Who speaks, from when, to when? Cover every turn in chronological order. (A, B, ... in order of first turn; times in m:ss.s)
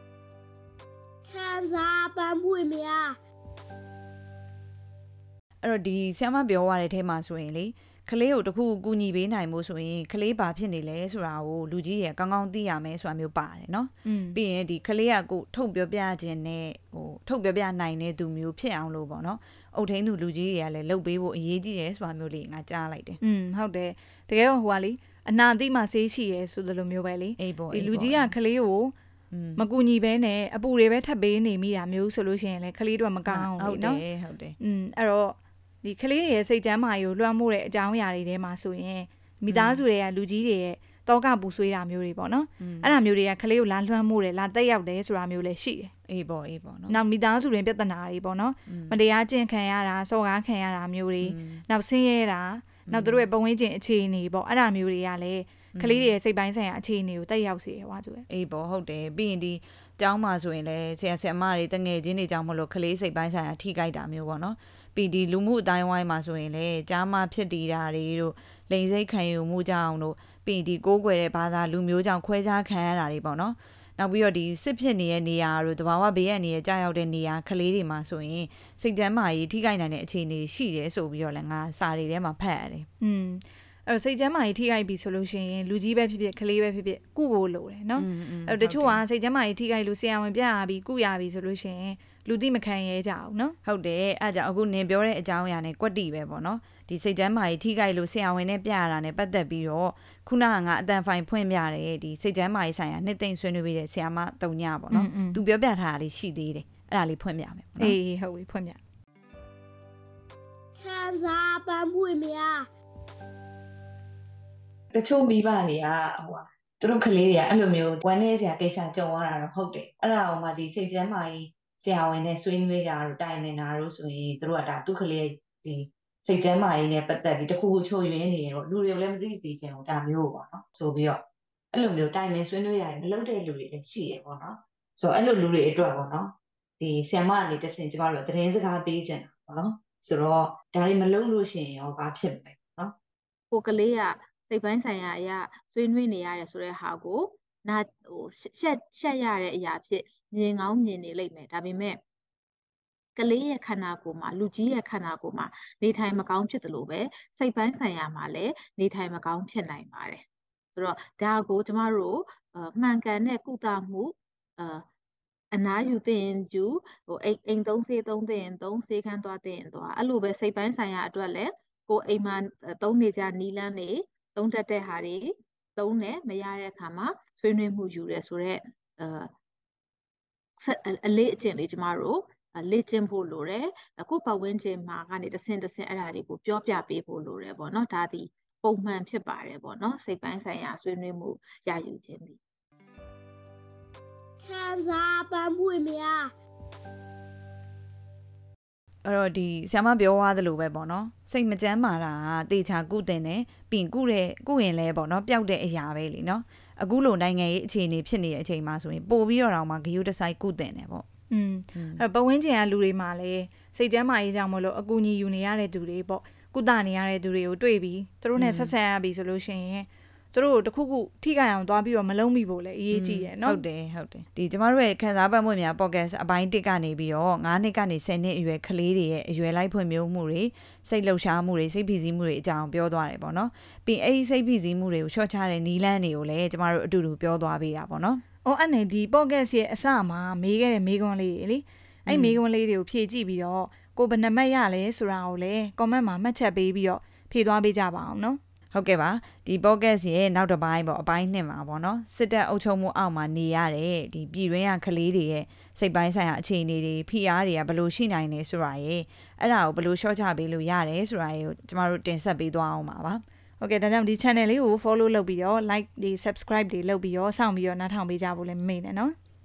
0:01.4-0:03.0 A
0:05.6-0:23.2 B
0:14.0-0:14.4 C
0:23.2-0:28.9 C
0:27.4-0:28.3 B
0:29.3-0:29.6 B
0:29.6-0:34.0 C
0:33.3-0:34.6 B
0:34.6-0:45.9 C
0:39.5-0:39.8 B
0:42.6-0:43.0 B
0:46.1-0:47.0 B
0:46.9-0:58.2 C
0:48.7-0:49.0 B
0:51.2-0:51.6 B
0:52.9-0:53.3 B
0:55.7-0:56.1 B
0:58.3-1:22.9 B
1:23.0-1:33.6 C
1:28.0-1:29.0 B
1:33.6-1:48.0 B
1:44.9-1:45.4 C
1:47.8-1:48.8 C
1:50.9-1:52.5 A
1:54.9-2:22.9 D
2:23.5-2:32.0 E
2:33.2-2:40.2 E
2:40.8-2:44.8 E
2:45.5-2:59.3 E
3:00.6-3:12.4 E
3:14.6-3:16.2 A
3:19.0-3:31.0 B
3:31.3-3:43.6 C
3:31.7-3:32.0 B
3:38.4-3:38.7 B
3:42.9-3:58.2 B
3:58.4-4:08.4 C
4:02.1-4:02.4 B
4:08.7-4:23.2 B
4:23.6-4:29.1 C